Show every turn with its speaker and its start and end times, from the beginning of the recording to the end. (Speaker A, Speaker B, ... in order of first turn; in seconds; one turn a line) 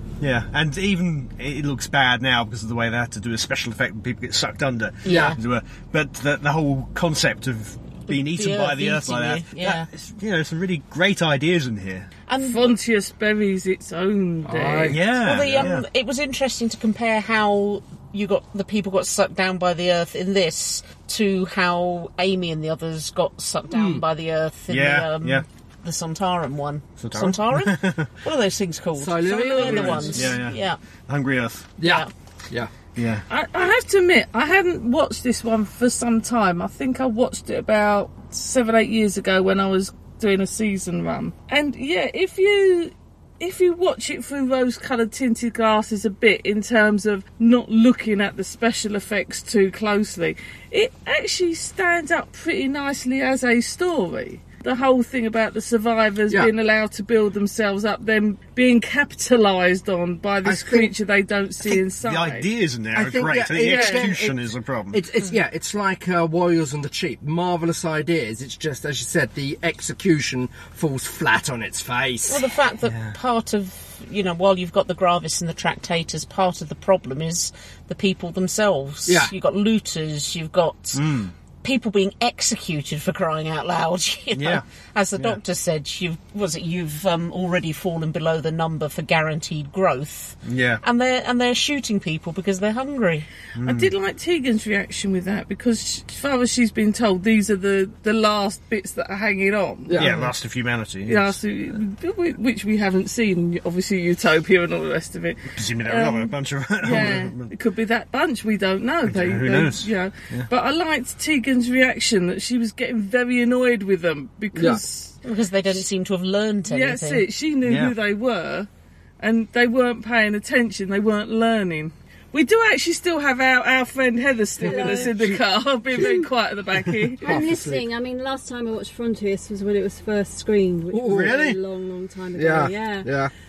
Speaker A: 0.2-12.1
Speaker B: 5.0-5.4
Speaker C: 5.1-5.4
Speaker B: 8.1-9.9
Speaker B: 12.3-12.7
Speaker D: 12.4-15.0
Speaker C: 14.4-15.0
Speaker A: 14.9-15.8
Speaker B: 15.2-30.8
Speaker C: 23.7-24.0
Speaker A: 24.7-25.4
Speaker A: 27.0-28.1
Speaker C: 29.0-30.4
Speaker A: 29.6-31.7
Speaker C: 31.8-32.7
Speaker B: 31.8-32.1
Speaker A: 33.0-33.2
Speaker D: 33.3-62.5
Speaker C: 60.4-60.9
Speaker A: 62.0-65.0
Speaker C: 62.9-64.4
Speaker D: 63.5-64.1
Speaker C: 64.9-72.4
Speaker B: 72.2-93.3
Speaker C: 79.0-79.3
Speaker A: 80.9-81.3
Speaker A: 84.3-84.6
Speaker A: 90.4-90.8
Speaker A: 93.5-93.9
Speaker D: 93.6-100.0
Speaker C: 99.9-100.3
Speaker A: 100.0-101.4
Speaker D: 101.0-115.2
Speaker A: 105.5-107.5
Speaker A: 109.0-110.5
Speaker C: 114.5-114.8
Speaker B: 115.2-117.2
Speaker D: 116.7-118.7
Speaker A: 117.7-117.9
Speaker D: 119.2-127.4
Speaker C: 124.6-125.3
Speaker E: 124.6-125.1
Speaker C: 125.9-126.2
Speaker E: 126.0-126.2
Speaker E: 127.2-133.1
Speaker C: 127.2-127.8
Speaker C: 130.9-131.4
Speaker A: 131.1-131.6
Speaker C: 132.3-133.3